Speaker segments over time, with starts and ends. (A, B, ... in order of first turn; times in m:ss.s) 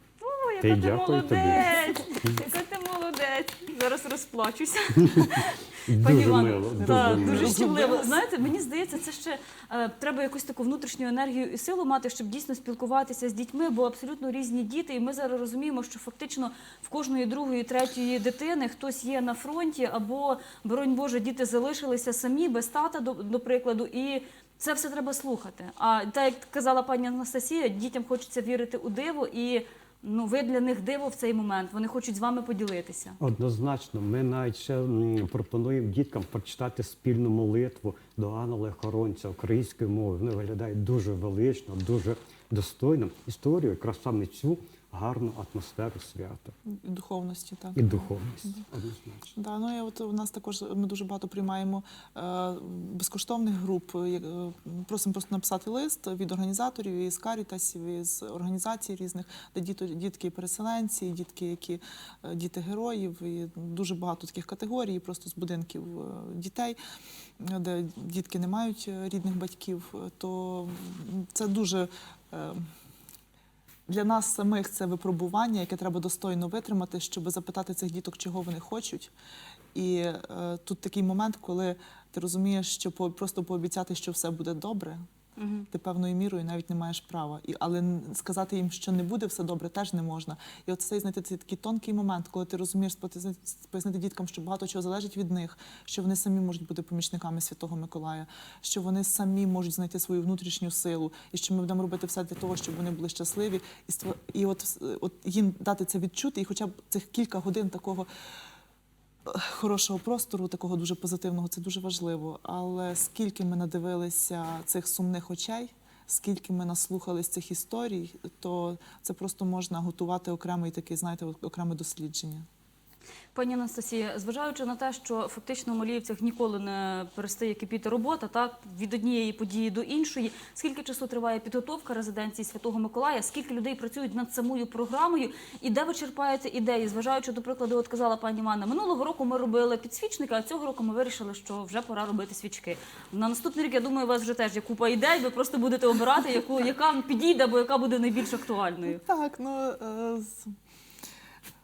0:00.2-0:33.2 A
0:00.6-0:02.4 B
0:05.1-0:07.8 B
0:06.8-0:08.2 C
0:33.2-0:46.6 B
0:46.7-0:48.6 C
0:47.8-0:49.3 B
0:49.4-1:06.8 C
1:07.4-1:12.7 C
1:13.9-1:19.1 C
1:19.7-1:25.0 C
1:25.4-1:25.7 A
1:25.7-1:48.1 C
1:49.3-2:02.5 C
2:03.3-2:29.0 A
2:28.9-2:30.5 C